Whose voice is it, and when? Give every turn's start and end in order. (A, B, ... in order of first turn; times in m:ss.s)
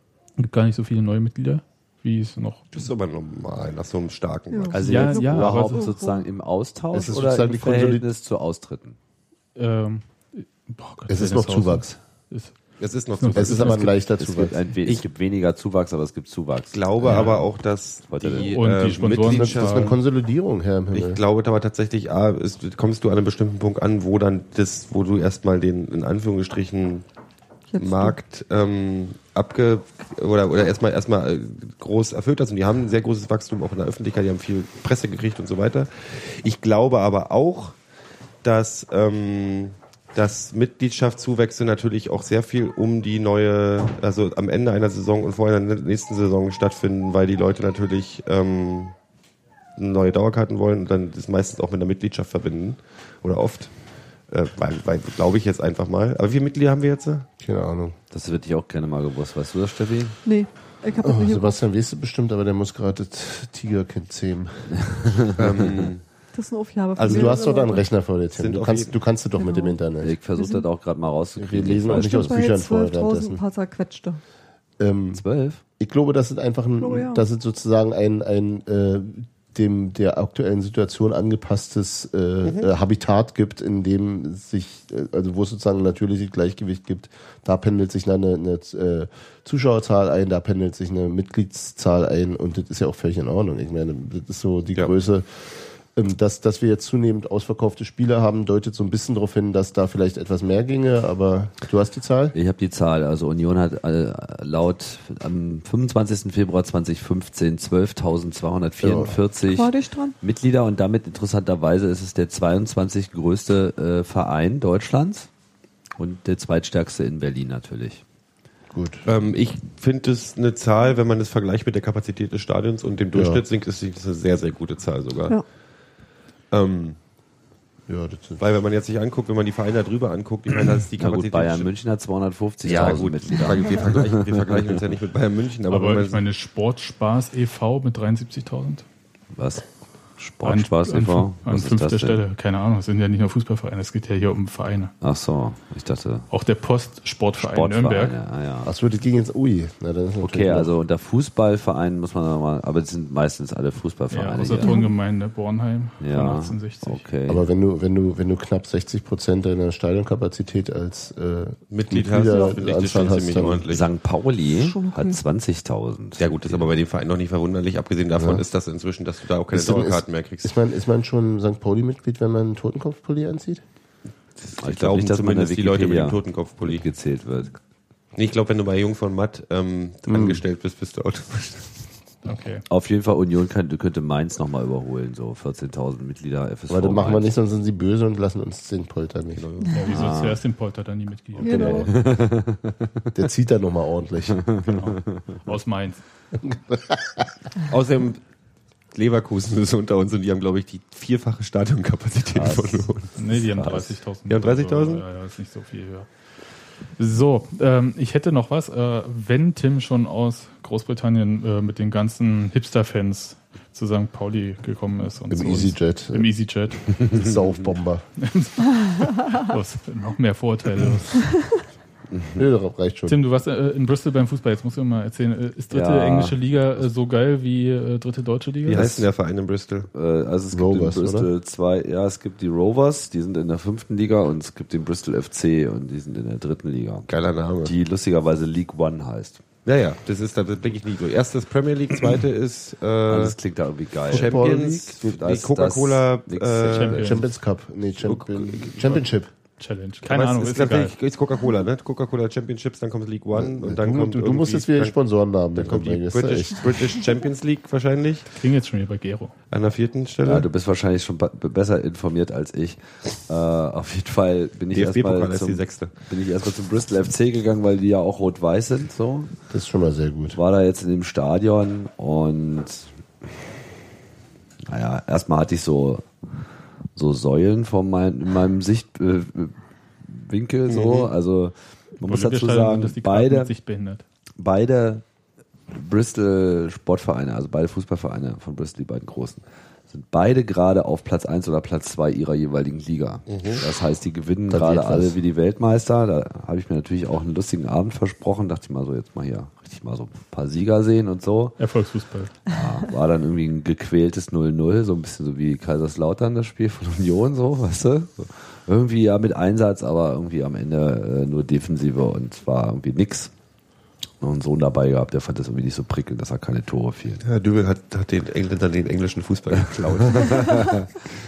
0:00.4-0:02.7 A
0:02.7-0:04.8 B
0:04.5-0:06.3 C
0:04.7-0:09.0 D
0:04.8-0:05.9 A
0:06.9-0:08.0 E
0:09.6-0:12.5 A
0:11.1-0:12.0 E
0:12.8-0:13.8 B
0:13.2-0:13.9 A
0:13.3-0:14.6 E
0:14.2-0:17.4 D
0:16.7-0:20.0 B
0:17.0-0:17.4 A
0:18.1-0:18.6 D
0:18.4-0:20.0 A
0:19.2-0:21.2 E
0:20.9-0:27.0 B
0:27.7-0:28.2 C
0:27.8-0:37.8 B
0:38.4-0:48.9 B
0:49.8-0:53.7 B
0:54.3-0:57.3 B
0:57.4-0:58.0 E
0:58.1-1:00.2 D
1:00.2-1:01.6 C
1:01.0-1:05.1 E
1:04.7-1:05.4 D
1:05.4-1:06.0 B
1:06.3-1:07.8 C
1:07.0-1:07.4 B
1:07.0-1:10.1 E
1:08.3-1:09.0 B
1:09.4-1:10.7 C
1:10.0-1:12.5 D
1:11.4-1:13.4 E
1:11.9-1:14.2 C
1:14.8-1:15.2 E
1:15.1-1:15.6 D
1:15.8-1:42.3 E
1:16.8-1:17.2 C
1:22.4-1:22.7 B
1:42.3-1:55.3 D
1:48.8-1:49.2 E
1:49.4-1:50.2 C
1:56.0-1:58.0 D
1:58.7-1:59.0 E
1:59.0-2:05.4 B
2:03.1-2:03.4 E
2:06.5-2:07.0 B
2:07.9-2:08.4 E
2:08.4-2:11.7 B
2:11.0-2:14.8 D
2:12.6-2:16.2 B
2:15.7-2:18.8 A
2:19.3-2:19.6 D
2:20.2-2:22.2 D
2:20.4-2:24.9 A
2:25.0-2:26.3 D
2:26.3-2:28.2 A
2:27.4-2:28.7 D
2:28.6-2:30.7 E
2:30.2-2:34.8 D
2:34.1-2:37.0 A
2:34.6-2:34.9 C
2:36.0-2:37.4 D
2:37.3-2:43.6 E
2:41.7-2:43.9 B
2:43.7-2:46.7 D
2:44.4-2:45.2 C
2:46.2-2:50.6 B
2:48.1-2:48.4 E
2:49.5-2:53.6 E
2:54.4-2:56.8 B
2:54.6-2:57.6 D
2:58.1-3:01.9 B
3:00.1-3:00.4 E
3:02.2-3:02.6 A
3:02.7-3:07.3 D
3:06.7-3:09.5 E
3:09.3-3:10.0 B
3:09.7-3:11.8 A
3:09.9-3:10.4 D
3:11.4-3:11.9 C
3:11.5-3:11.9 E
3:11.6-3:13.0 D
3:13.1-3:14.6 E
3:14.6-3:16.0 A
3:16.5-3:17.2 E
3:17.7-3:18.2 B
3:18.9-3:23.1 B
3:22.3-3:22.8 D
3:23.2-3:26.1 A
3:23.4-3:23.9 D
3:24.3-3:25.0 B
3:27.0-3:37.0 A
3:35.3-3:36.3 E
3:37.1-3:38.0 E
3:38.2-3:41.3 A
3:42.1-3:42.4 D
3:42.4-3:43.2 E
3:43.1-3:48.9 A
3:45.7-3:46.4 D
3:48.7-3:49.9 B
3:48.7-3:49.1 D
3:49.9-3:57.1 D
3:50.5-3:51.3 E
3:57.1-3:57.7 B
3:57.6-3:59.4 D
3:59.6-4:03.4 B
4:03.1-4:07.1 D
4:04.1-4:07.1 B
4:04.1-4:04.8 E
4:06.7-4:07.2 A
4:06.9-4:09.3 E
4:08.0-4:09.0 B
4:09.6-4:10.9 A
4:10.0-4:15.0 B
4:13.3-4:16.7 E
4:15.5-4:18.3 B
4:18.3-4:19.3 A
4:19.5-4:20.5 B
4:20.2-4:29.3 D
4:24.7-4:25.9 B
4:29.5-4:30.4 E
4:30.3-4:32.9 D
4:34.7-4:36.0 D
4:36.9-4:43.5 D
4:40.7-4:41.1 B
4:42.0-4:44.0 A
4:44.4-4:45.0 D
4:45.7-5:01.6 D
4:53.3-4:53.6 B
4:54.5-4:55.2 E
5:01.6-5:02.3 A
5:02.5-5:13.3 D
5:14.2-5:17.2 D
5:17.2-5:20.7 B
5:19.6-5:21.0 D